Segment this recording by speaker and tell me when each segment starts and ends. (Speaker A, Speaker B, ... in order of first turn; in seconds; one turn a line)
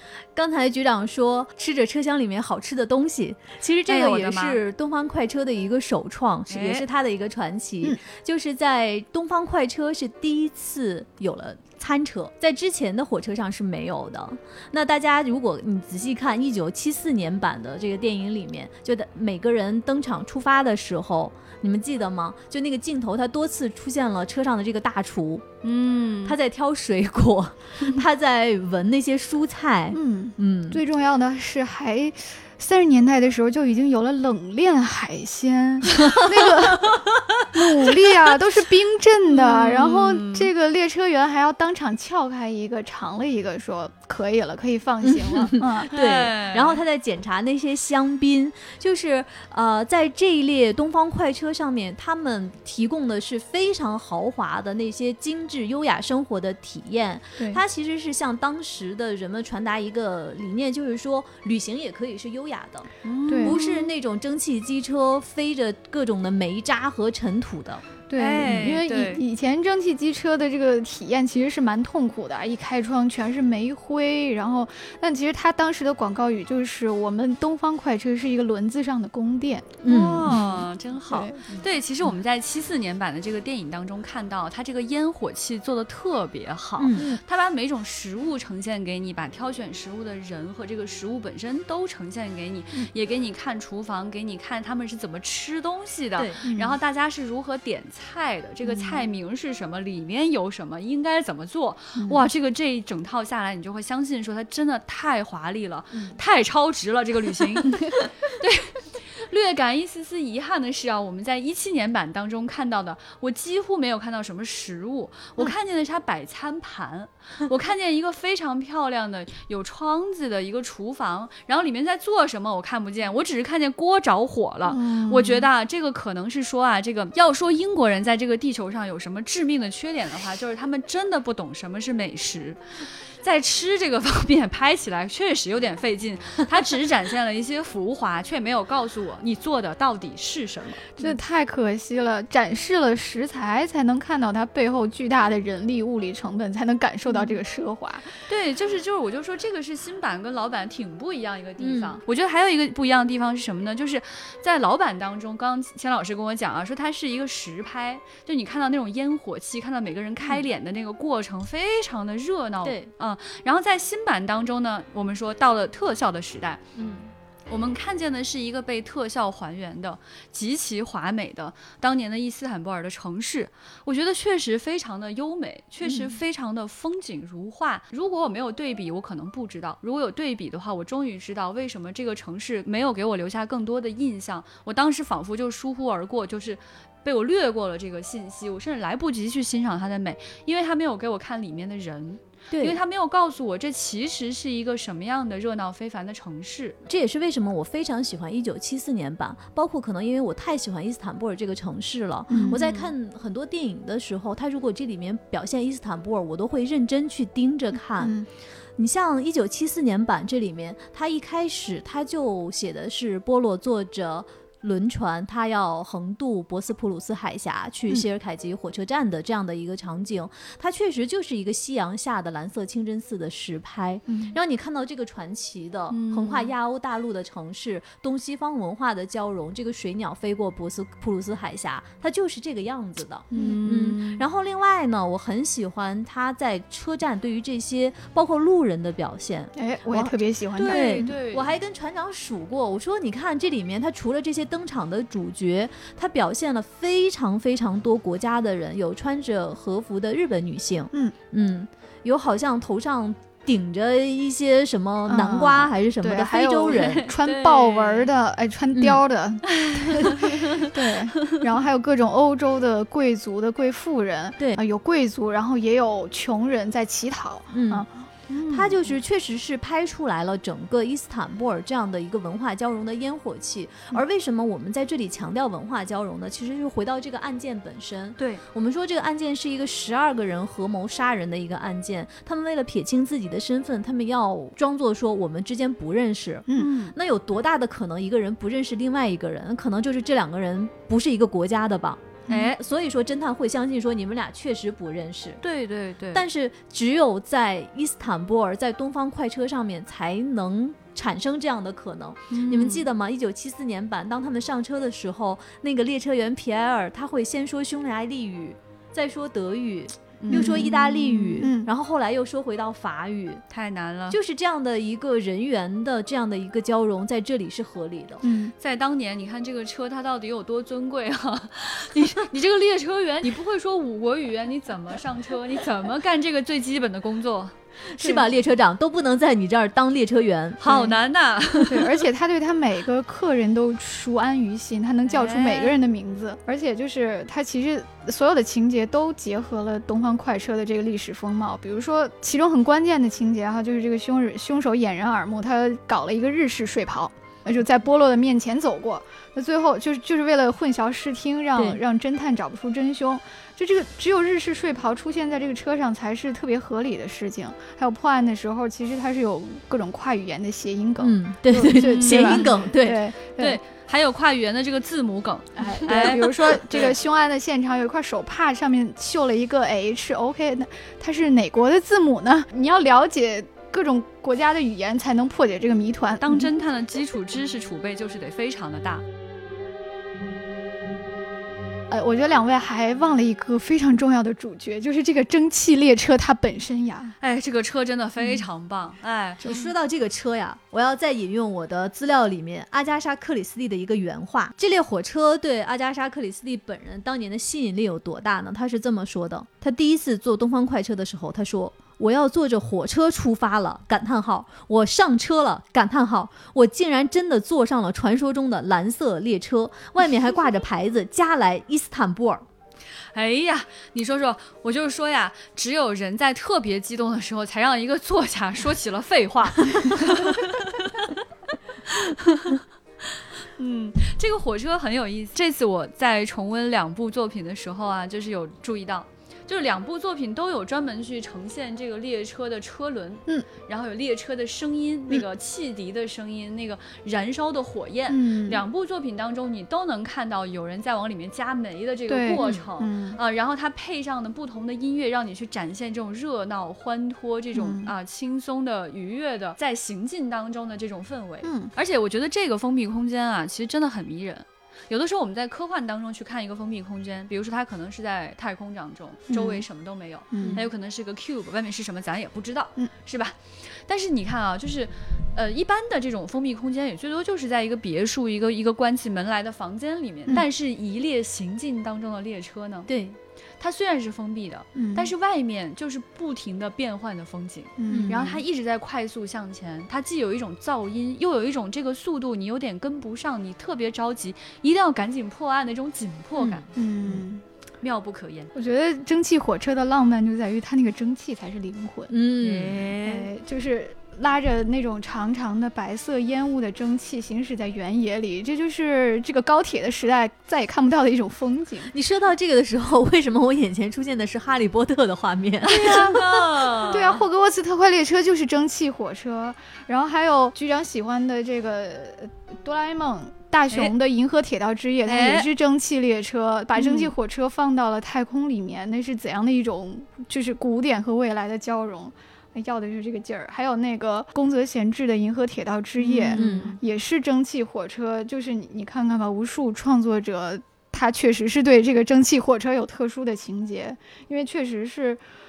Speaker A: 0.3-25.4
Speaker B: 3.9-4.6
Speaker B: 6.5-6.8
Speaker B: 25.6-26.4
Speaker A: 26.2-30.8
Speaker C: 29.9-45.9
Speaker B: 36.8-37.9
Speaker B: 39.3-40.5
Speaker A: 45.0-62.9
Speaker B: 45.9-46.8
Speaker B: 63.0-63.9
Speaker C: 63.3-63.6
Speaker A: 63.4-67.8
Speaker C: 68.1-81.5
Speaker B: 68.2-69.2
Speaker A: 79.8-80.5
Speaker B: 79.8-141.2
Speaker A: 86.8-87.2
Speaker A: 96.2-96.5
Speaker C: 96.5-96.8
Speaker C: 98.6-99.1
Speaker A: 105.9-106.2
Speaker C: 124.7-125.5
Speaker C: 141.0-148.2
Speaker B: 148.3-166.6
Speaker A: 151.6-152.0
Speaker A: 162.6-162.9
Speaker A: 166.8-167.1
Speaker B: 167.5-196.8
Speaker A: 192.5-192.8
Speaker A: 196.9-208.2
Speaker C: 202.3-202.6
Speaker B: 202.3-202.9
Speaker C: 208.0-208.3
Speaker A: 208.8-257.0
Speaker C: 224.1-224.4
Speaker B: 225.9-226.5
Speaker C: 233.3-233.6
Speaker B: 233.3-234.2
Speaker C: 239.6-241.1
Speaker B: 240.6-241.5
Speaker C: 255.1-267.9
Speaker B: 256.7-258.1
Speaker A: 258.7-259.0
Speaker B: 259.5-260.7
Speaker A: 267.5-267.9
Speaker B: 268.3-268.8
Speaker A: 268.5-295.4
Speaker B: 286.6-286.9
Speaker C: 292.3-292.5
Speaker B: 292.3-292.6
Speaker B: 295.4-296.2
Speaker A: 296.1-313.4
Speaker B: 302.3-302.9
Speaker B: 310.2-311.5
Speaker C: 310.3-310.7
Speaker C: 311.4-311.7
Speaker B: 313.5-314.2
Speaker A: 314.1-318.2
Speaker C: 318.2-318.5
Speaker B: 318.6-327.5
Speaker A: 327.9-330.8
Speaker C: 328.0-328.3
Speaker B: 330.6-331.9
Speaker C: 331.7-363.6
Speaker B: 335.1-335.8
Speaker A: 351.6-351.8
Speaker A: 361.0-363.0
Speaker B: 361.8-362.6
Speaker B: 363.4-367.0
Speaker C: 365.6-376.5
Speaker B: 376.2-379.0
Speaker C: 381.9-387.1
Speaker B: 387.2-389.6
Speaker A: 389.4-412.4
Speaker B: 413.1-421.1
Speaker B: 421.9-472.9
Speaker C: 438.1-438.6
Speaker C: 442.1-443.2
Speaker C: 447.5-447.9
Speaker C: 451.4-451.7
Speaker C: 459.3-459.6
Speaker C: 460.3-460.6
Speaker A: 472.9-473.2
Speaker B: 473.6-486.6
Speaker C: 474.8-475.1
Speaker C: 477.8-478.4
Speaker A: 477.9-478.4
Speaker A: 486.4-487.2
Speaker C: 486.8-487.4
Speaker B: 487.8-488.5
Speaker C: 488.6-492.1
Speaker A: 492.1-492.9
Speaker B: 492.4-493.3
Speaker C: 493.0-501.9
Speaker A: 501.9-506.7
Speaker B: 505.6-507.2
Speaker C: 506.9-535.2
Speaker B: 515.1-515.5
Speaker B: 516.8-517.1
Speaker B: 526.0-526.8
Speaker A: 526.4-526.8